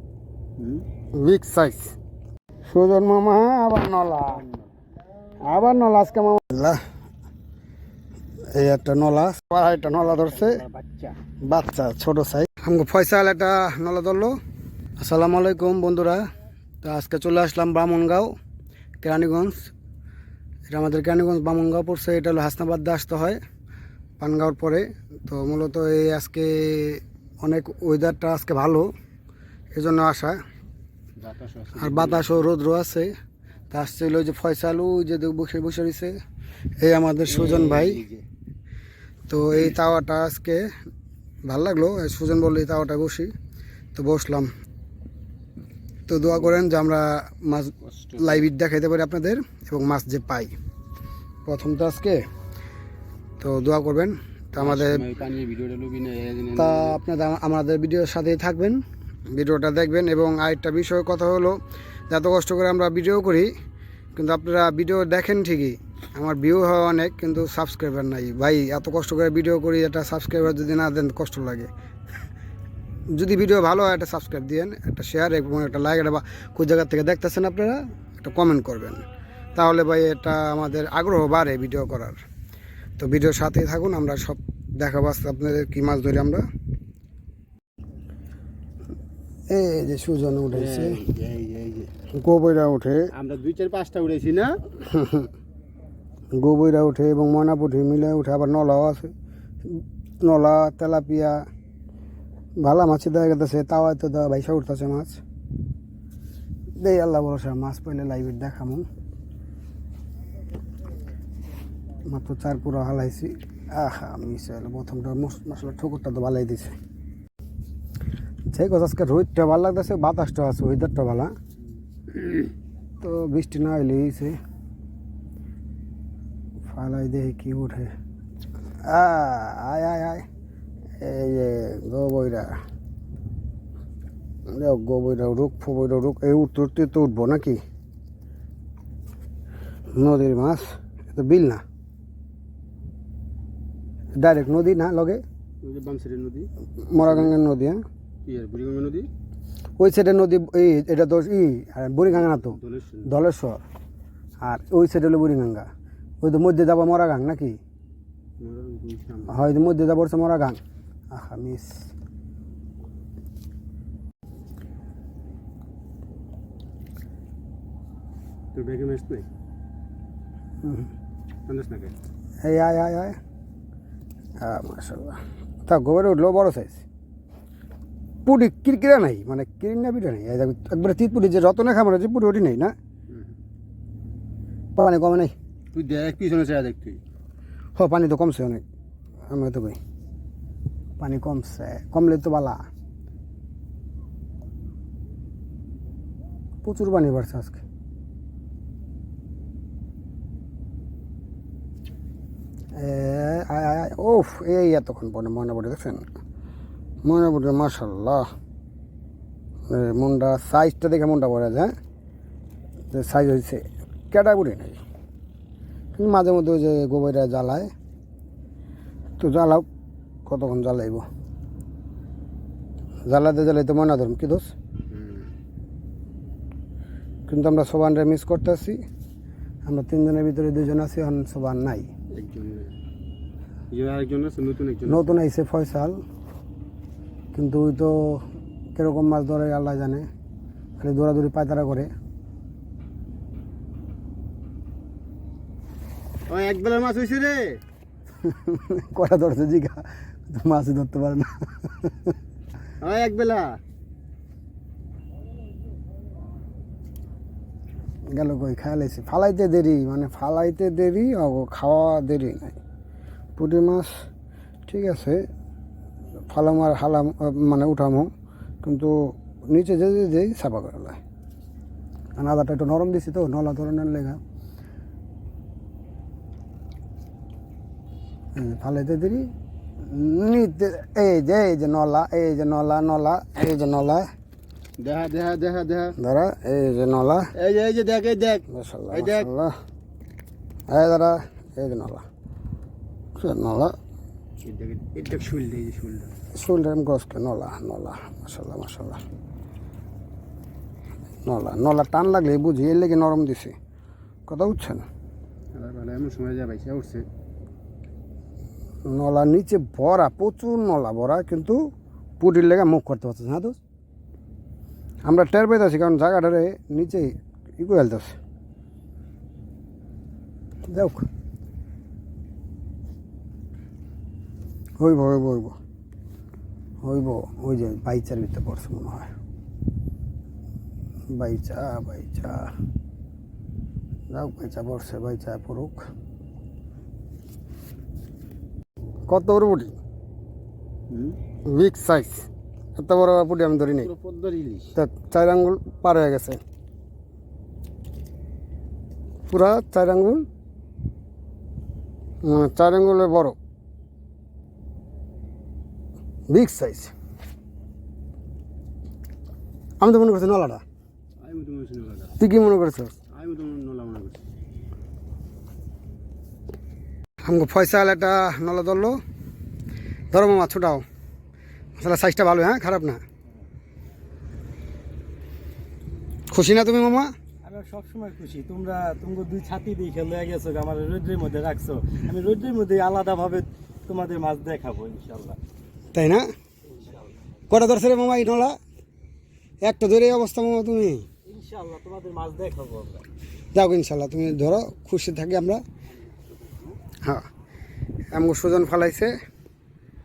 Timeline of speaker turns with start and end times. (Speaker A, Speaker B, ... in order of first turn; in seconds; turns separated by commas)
Speaker A: 0.6-0.8, Speaker B: 1.2-1.9, Speaker B: 2.7-4.4, Speaker A: 4.3-4.7, Speaker B: 5.5-6.8, Speaker B: 8.5-10.6, Speaker A: 10.2-11.2, Speaker B: 11.4-14.4, Speaker B: 15.0-16.2, Speaker B: 16.8-18.3, Speaker B: 19.0-19.7, Speaker B: 20.7-23.4, Speaker B: 24.2-28.9, Speaker B: 29.7-30.4, Speaker A: 31.2-32.5, Speaker B: 31.8-33.1, Speaker B: 33.7-36.1, Speaker B: 36.8-38.0, Speaker A: 37.3-38.2, Speaker B: 39.3-40.6, Speaker B: 41.5-43.3, Speaker B: 43.9-44.5, Speaker B: 46.1-50.5, Speaker A: 48.0-48.5, Speaker B: 51.5-52.2, Speaker B: 53.4-55.0, Speaker A: 54.5-57.0, Speaker B: 56.5-61.6, Speaker B: 62.1-63.5, Speaker B: 64.2-71.7, Speaker B: 73.2-79.0, Speaker B: 79.5-82.2, Speaker B: 83.0-86.4, Speaker B: 89.5-91.0, Speaker A: 90.5-91.9, Speaker B: 92.1-93.1, Speaker A: 93.1-94.6, Speaker B: 94.8-95.3, Speaker B: 96.3-99.1, Speaker B: 99.7-101.4, Speaker B: 102.6-105.2, Speaker B: 106.8-108.8, Speaker B: 112.1-116.7, Speaker B: 118.5-121.3, Speaker B: 123.0-124.3, Speaker B: 126.7-127.9, Speaker B: 128.8-130.2, Speaker B: 131.0-132.5, Speaker B: 134.5-137.6, Speaker B: 139.9-141.6, Speaker B: 144.1-145.2, Speaker A: 145.6-146.5, Speaker B: 146.8-147.8, Speaker A: 147.0-147.3, Speaker A: 148.2-149.1, Speaker B: 149.8-153.6, Speaker A: 152.2-153.1, Speaker B: 154.4-155.7, Speaker B: 156.2-157.6, Speaker A: 158.4-159.4, Speaker B: 159.3-160.6, Speaker B: 161.1-161.7, Speaker A: 168.5-169.3, Speaker B: 170.6-170.9, Speaker A: 171.5-171.9, Speaker B: 172.4-173.2, Speaker B: 174.4-176.8, Speaker B: 178.2-182.7, Speaker B: 184.8-185.3, Speaker A: 185.7-187.0, Speaker B: 187.8-188.6, Speaker B: 189.3-189.8, Speaker B: 191.0-192.6, Speaker B: 196.6-197.6, Speaker B: 202.8-206.1, Speaker B: 207.0-208.3, Speaker B: 209.7-211.7, Speaker B: 212.9-214.8, Speaker B: 215.9-217.7, Speaker B: 219.2-219.7, Speaker B: 220.2-221.0, Speaker B: 223.1-224.5, Speaker A: 224.9-225.3, Speaker B: 227.3-228.8, Speaker B: 229.7-231.9, Speaker A: 232.1-232.7, Speaker A: 233.7-235.2, Speaker B: 234.9-236.0, Speaker B: 237.3-240.1, Speaker B: 240.8-241.9, Speaker A: 246.3-247.6, Speaker B: 248.2-252.1, Speaker A: 252.8-253.6, Speaker B: 258.1-262.6, Speaker B: 263.4-263.9, Speaker B: 264.7-265.2, Speaker B: 266.3-268.1, Speaker B: 268.6-271.0, Speaker B: 272.2-274.2, Speaker B: 278.4-279.3, Speaker B: 279.8-284.1, Speaker A: 284.8-285.9, Speaker B: 286.0-287.3, Speaker A: 287.4-289.3, Speaker B: 288.5-289.5, Speaker B: 290.7-292.0, Speaker B: 293.2-293.7, Speaker A: 294.4-296.1, Speaker B: 296.3-299.0, Speaker B: 301.2-303.5, Speaker B: 304.3-304.8, Speaker A: 305.6-307.0, Speaker B: 308.9-311.6, Speaker B: 312.2-313.6, Speaker B: 315.1-318.1, Speaker B: 320.7-321.1, Speaker B: 324.8-325.6, Speaker B: 326.8-329.1, Speaker B: 331.1-332.5, Speaker B: 334.1-335.9, Speaker B: 339.1-339.7, Speaker A: 340.9-341.2, Speaker B: 341.5-343.9, Speaker A: 343.8-344.7, Speaker B: 344.7-346.4, Speaker B: 349.3-350.2, Speaker B: 352.2-353.4, Speaker B: 356.3-356.9, Speaker B: 359.8-360.6, Speaker A: 361.2-362.1, Speaker B: 362.2-362.9, Speaker A: 363.1-364.2, Speaker B: 367.2-369.0, Speaker B: 370.1-370.8, Speaker B: 371.8-373.0, Speaker B: 376.3-377.1, Speaker C: 377.4-385.4, Speaker B: 385.9-386.2, Speaker C: 386.7-387.1, Speaker B: 387.5-388.6, Speaker B: 389.6-391.1, Speaker C: 391.2-393.1, Speaker B: 393.5-395.6, Speaker B: 398.1-399.1